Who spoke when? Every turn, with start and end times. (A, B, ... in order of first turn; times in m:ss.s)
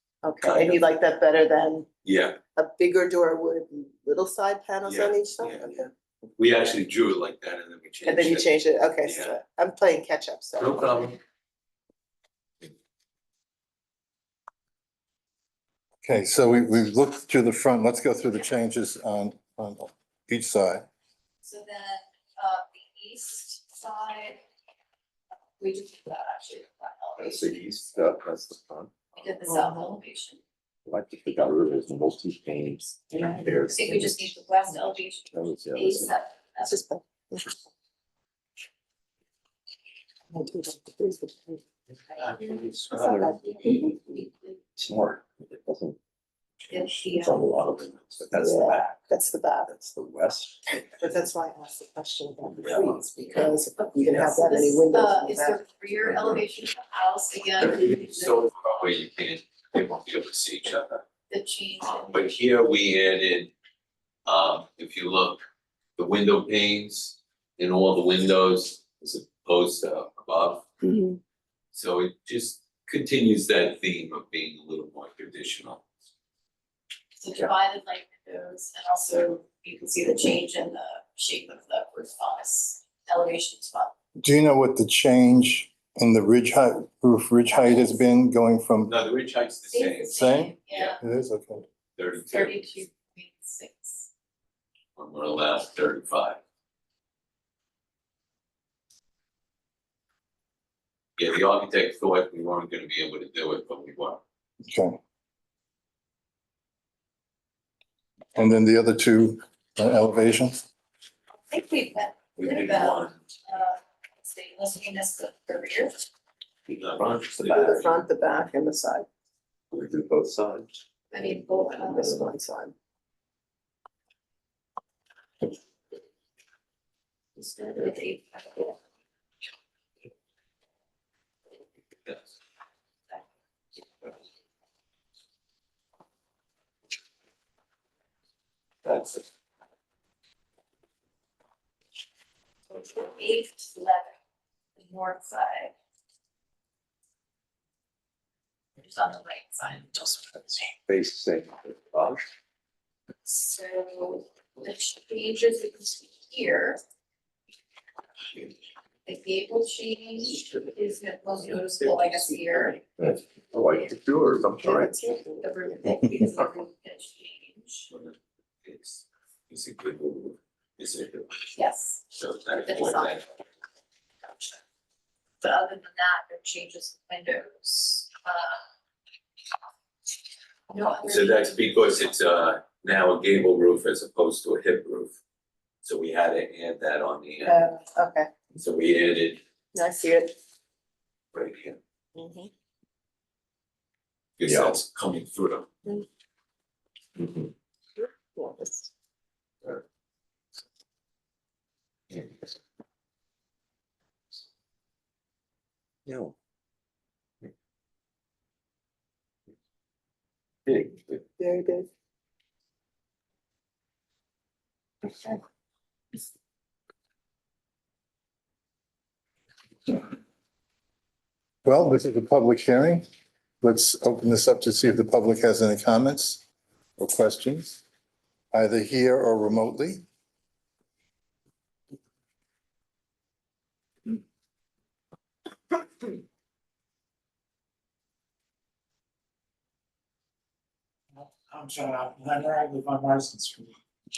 0:00.2-0:01.9 A
0:00.4-0:00.8 B
0:02.0-0:02.4 B
0:02.6-0:05.9 A
0:04.8-0:05.8 B
0:06.4-0:09.4 B
0:08.0-0:11.2 A
0:10.6-0:11.2 B
0:16.0-0:20.9 C
0:21.4-0:24.4 D
0:25.6-0:27.6 D
0:27.2-0:28.9 E
0:29.1-0:30.4 D
0:29.4-0:30.0 A
0:30.9-0:34.4 E
0:33.1-0:33.5 A
0:33.7-0:36.8 D
0:35.3-0:36.1 E
0:36.6-0:37.6 A
0:40.3-0:41.6 A
0:42.2-0:44.6 D
0:42.2-0:43.0 F
0:42.4-0:43.4 E
0:43.0-0:43.9 A
0:44.8-0:46.0 E
0:46.7-0:49.1 E
0:46.7-0:47.5 D
0:48.3-0:49.7 A
0:49.7-0:50.8 E
0:51.0-0:55.6 A
0:52.6-0:53.0 E
0:53.6-0:58.5 D
0:56.1-0:56.4 E
0:57.6-1:01.0 B
1:01.3-1:02.2 D
1:01.9-1:03.5 B
1:04.3-1:05.4 B
1:06.0-1:10.7 B
1:10.8-1:11.2 A
1:11.7-1:15.9 B
1:17.2-1:23.9 D
1:24.2-1:28.9 C
1:28.9-1:31.0 B
1:29.7-1:31.0 D
1:30.1-1:31.6 C
1:32.0-1:32.8 B
1:32.3-1:34.1 D
1:35.0-1:36.4 B
1:41.2-1:44.2 B
1:44.6-1:45.0 C
1:48.4-1:50.6 C
1:51.5-1:56.1 D
1:52.4-1:53.2 B
1:56.7-1:58.0 B
1:57.4-1:59.1 A
1:59.7-2:00.7 E
2:01.1-2:02.1 D
2:01.7-2:02.8 A
2:07.4-2:08.8 D
2:18.8-2:19.2 B
2:22.7-2:24.1 D
2:24.8-2:25.7 D
2:28.8-2:30.3 D
2:30.4-2:32.2 E
2:33.2-2:36.8 D
2:39.0-2:42.8 D
2:43.0-2:45.0 E
2:44.6-2:45.5 A
2:45.4-2:47.9 D
2:47.9-2:51.6 B
2:51.6-2:53.2 D
2:52.1-2:53.2 B
2:54.2-2:54.6 D
2:55.4-2:58.6 D
3:00.7-3:01.6 D
3:01.0-3:05.2 B
3:05.8-3:07.6 B
3:07.4-3:08.3 A
3:08.5-3:09.4 B
3:09.7-3:10.3 A
3:11.3-3:11.8 B
3:12.2-3:12.5 A
3:14.4-3:15.7 B
3:14.5-3:14.7 E
3:17.2-3:17.5 E
3:18.0-3:18.9 A
3:26.1-3:26.4 E
3:30.7-3:31.2 B
3:31.4-3:31.9 A
3:35.1-3:35.4 A
3:41.6-3:43.1 C
3:43.6-3:46.4 C
3:47.0-3:47.8 C
3:48.5-3:50.0 C
4:01.1-4:03.8 F